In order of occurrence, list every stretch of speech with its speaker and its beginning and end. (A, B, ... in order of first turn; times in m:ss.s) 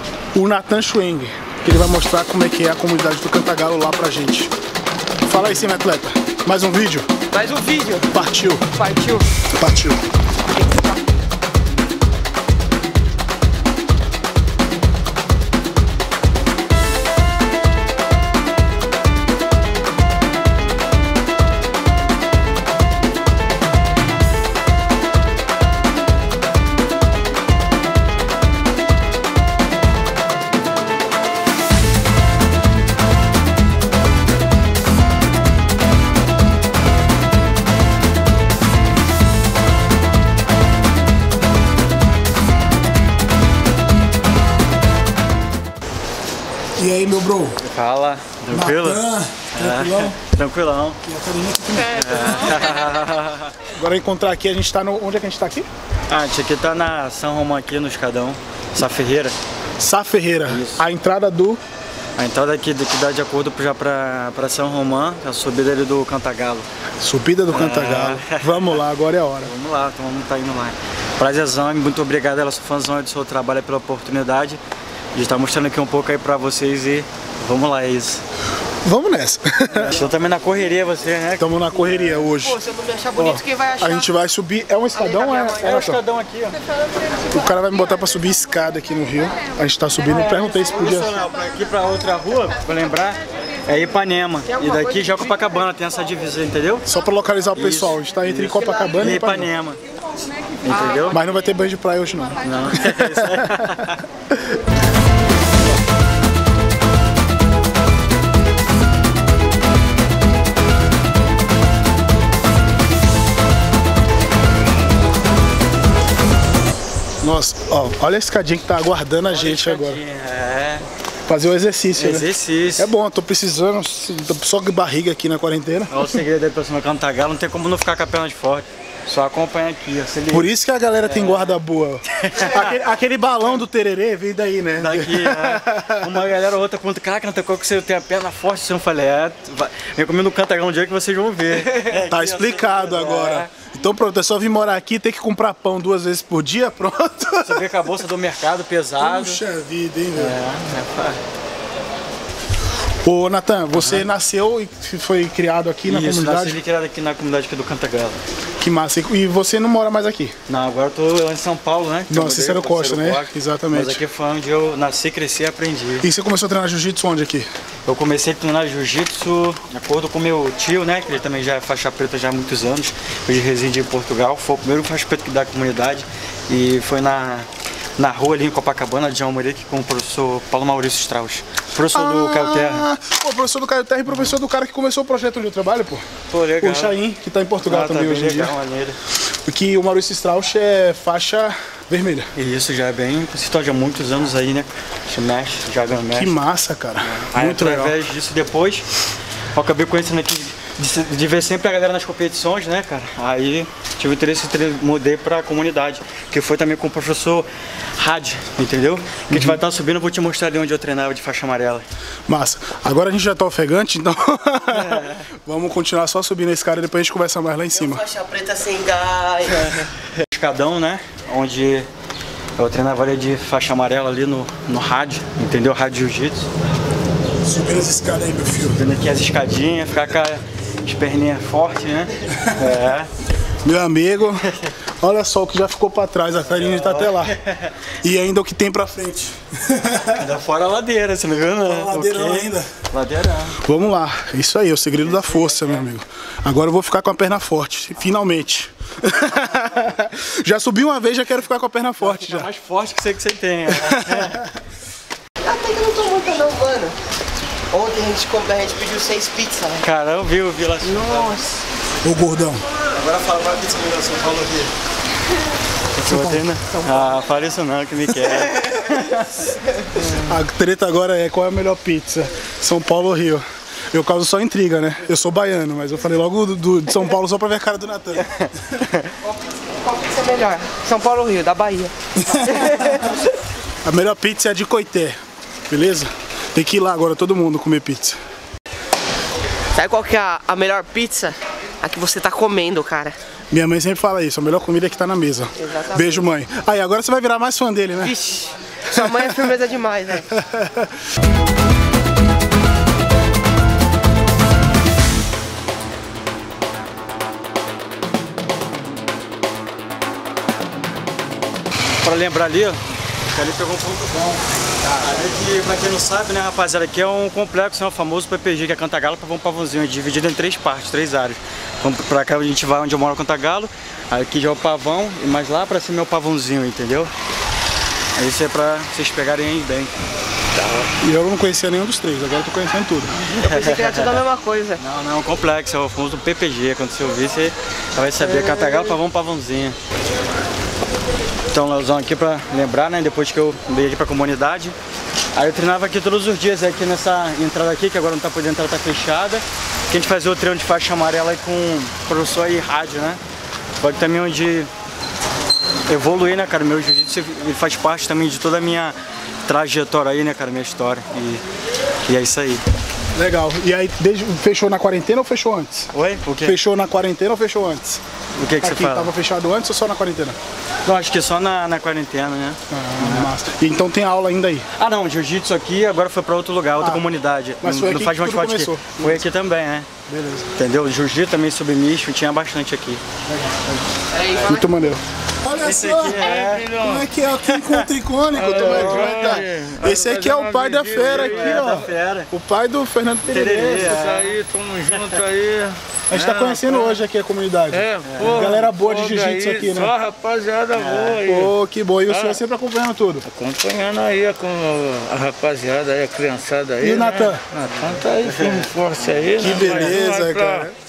0:00.3-0:04.5 A
0:05.2-0:07.1 A
0:07.3-0:08.1 B
0:08.1-0:08.7 A
0:08.7-0:09.4 B
0:09.5-0:10.0 A
0:10.5-0:10.9 B
0:46.8-0:47.6 A
0:47.6-0:51.0 C
0:48.5-0:50.2 A
0:51.0-0:52.8 A
0:51.9-0:53.6 C
0:53.6-0:55.7 A
0:56.1-0:59.3 C
0:59.8-1:01.6 A
1:00.5-1:00.8 C
1:02.2-1:06.7 C
1:07.0-1:09.5 A
1:07.5-1:08.8 C
1:09.4-1:14.6 C
1:15.1-1:18.2 C
1:18.8-1:20.0 A
1:19.7-1:22.1 C
1:21.4-1:22.6 A
1:22.2-1:24.1 B
1:23.1-1:26.0 A
1:24.9-1:25.8 B
1:25.6-1:26.6 C
1:27.3-1:31.2 A
1:30.6-1:36.8 C
1:34.5-1:35.3 B
1:36.8-1:39.5 A
1:37.5-1:39.8 C
1:40.6-1:41.2 C
1:40.7-1:41.0 B
1:41.1-1:43.8 A
1:42.4-1:44.0 C
1:44.3-1:44.6 A
1:57.2-2:00.0 A
1:59.3-2:00.8 C
2:01.3-2:06.2 A
2:01.9-2:02.9 C
2:05.9-2:11.6 C
2:10.3-2:16.2 A
2:12.2-2:12.8 C
2:14.8-2:23.5 C
2:22.1-2:27.7 A
2:27.4-2:29.4 C
2:29.0-2:30.4 A
2:30.1-2:31.2 C
2:33.0-2:36.6 A
2:33.8-2:34.0 C
2:35.8-2:38.2 C
2:38.6-2:40.3 A
2:40.5-2:46.1 C
2:42.1-2:44.0 A
2:46.0-2:47.5 A
2:47.8-3:02.9 C
3:01.9-3:06.0 A
3:06.3-3:07.0 C
3:06.6-3:08.5 A
3:07.6-3:09.0 C
3:09.4-3:12.3 A
3:12.4-3:16.4 C
3:16.1-3:18.0 A
3:17.0-3:18.9 C
3:19.5-3:31.8 C
3:29.3-3:29.6 A
3:32.3-3:38.0 A
3:34.7-3:35.2 C
3:37.7-3:39.9 B
3:40.1-3:41.9 C
3:42.6-3:46.5 C
3:47.4-3:48.8 A
3:48.6-3:53.1 C
3:53.6-3:54.5 A
3:54.4-3:54.7 C
3:55.0-3:57.4 A
3:56.5-3:57.7 C
3:58.0-4:00.2 A
4:00.1-4:03.6 C
4:01.6-4:02.7 A
4:03.6-4:12.5 A
4:05.0-4:05.9 C
4:12.0-4:14.4 C
4:13.7-4:14.6 A
4:15.4-4:17.0 B
4:17.7-4:19.8 B
4:19.8-4:21.4 C
4:20.8-4:21.6 B
4:22.0-4:22.6 A
4:22.8-4:24.7 C
4:25.9-4:29.5 C
4:26.0-4:26.4 A
4:26.8-4:27.2 B
4:29.7-4:30.3 B
4:30.1-4:38.8 A
4:38.2-4:39.1 C
4:39.2-4:43.2 B
4:42.2-4:43.0 A
4:43.8-4:45.2 A
4:45.7-4:48.2 A
4:49.7-4:53.2 B
4:53.5-4:58.1 A
4:55.6-4:56.2 B
4:58.0-5:00.3 B
4:59.0-4:59.4 A
5:00.3-5:00.9 A
5:12.0-5:27.1 C
5:28.2-5:30.0 C
5:31.0-5:33.2 A
5:33.2-5:34.8 B
5:33.4-5:34.2 C
5:34.8-5:39.8 C
5:38.2-5:38.9 B
5:41.5-5:44.8 C
5:45.3-5:53.2 C
5:53.8-5:54.7 C
5:55.9-6:01.4 C
6:02.0-6:02.6 C
6:03.1-6:05.9 A
6:05.9-6:06.6 C
6:06.4-6:08.0 A
6:08.4-6:09.1 C
6:08.6-6:10.4 A
6:10.8-6:13.3 C
6:12.7-6:14.7 A
6:14.8-6:19.9 C
6:16.8-6:17.0 A
6:17.6-6:19.2 A
6:20.1-6:20.5 A
6:20.6-6:23.0 C
6:23.3-6:23.9 A
6:24.1-6:24.9 B
6:24.4-6:34.1 A
6:25.6-6:26.7 C
6:26.2-6:27.1 D
6:27.5-6:27.9 C
6:28.3-6:31.8 D
6:28.4-6:29.4 C
6:30.9-6:32.3 C
6:33.3-6:34.4 C
6:33.7-6:37.0 D
6:36.1-6:39.9 A
6:37.7-6:41.5 D
6:38.0-6:38.6 C
6:40.7-6:41.2 C
6:41.2-6:43.2 A
6:42.1-6:42.4 D
6:43.2-6:50.7 D
6:46.8-6:47.4 A
6:48.2-6:48.7 C
6:49.4-6:50.7 A